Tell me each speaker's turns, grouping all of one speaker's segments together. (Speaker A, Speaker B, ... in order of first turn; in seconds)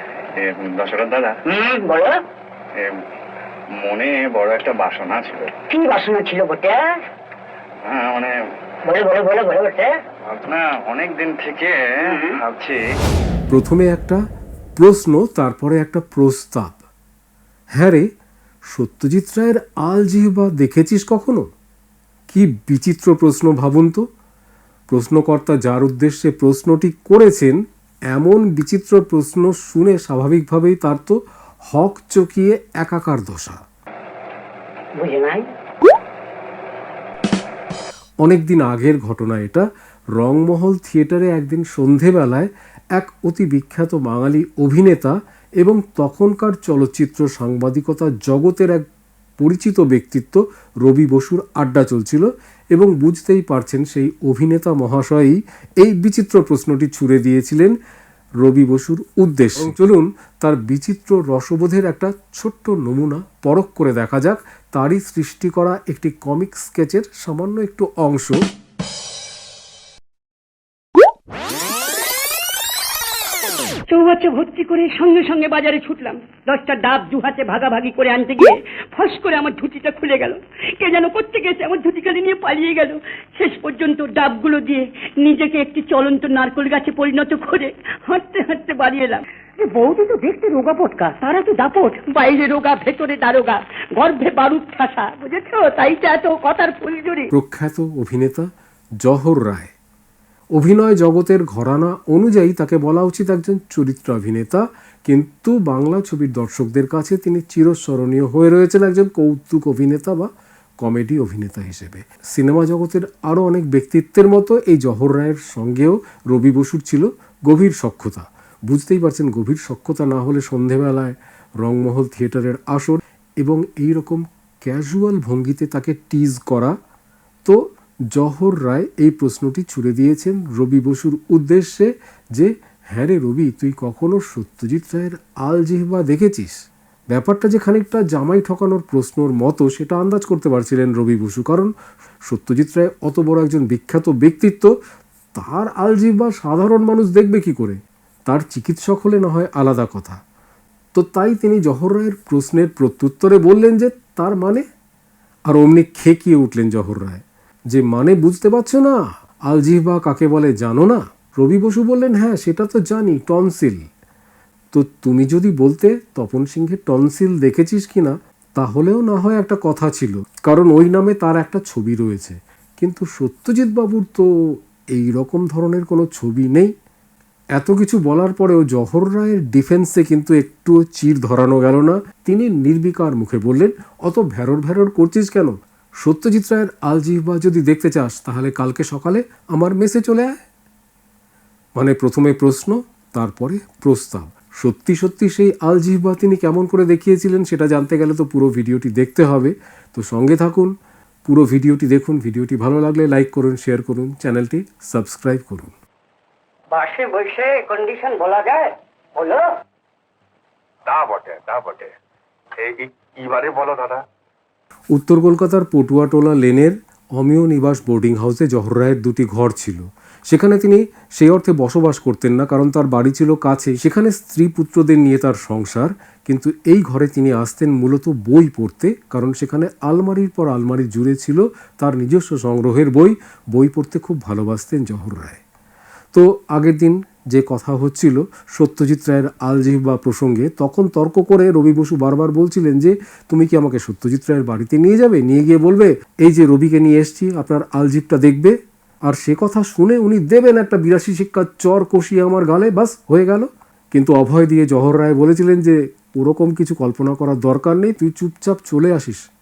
Speaker A: 0.3-1.4, 3.8-5.5, 7.8-8.3, 10.2-12.8
Speaker B: 1.5-2.2, 5.7-6.8, 8.8-9.9, 12.0-12.3, 34.9-35.5, 206.7-209.5
Speaker C: 13.5-14.2, 14.8-16.8, 17.7-18.1, 18.7-21.4, 22.3-24.0, 24.9-27.6, 28.1-31.1, 31.7-33.6, 38.2-48.8, 49.4-57.7, 58.4-68.4, 97.3-98.5, 99.0-99.7, 100.5-110.3, 110.8-126.7, 127.5-136.6, 137.1-141.7, 142.2-144.7, 145.3-150.2, 150.9-154.6, 155.5-163.8, 164.7-176.7, 177.6-190.3, 191.8-200.7, 201.2-205.7, 214.9-235.4, 236.1-259.2
Speaker D: 73.9-97.3
Speaker E: 210.9-211.9, 212.6-214.0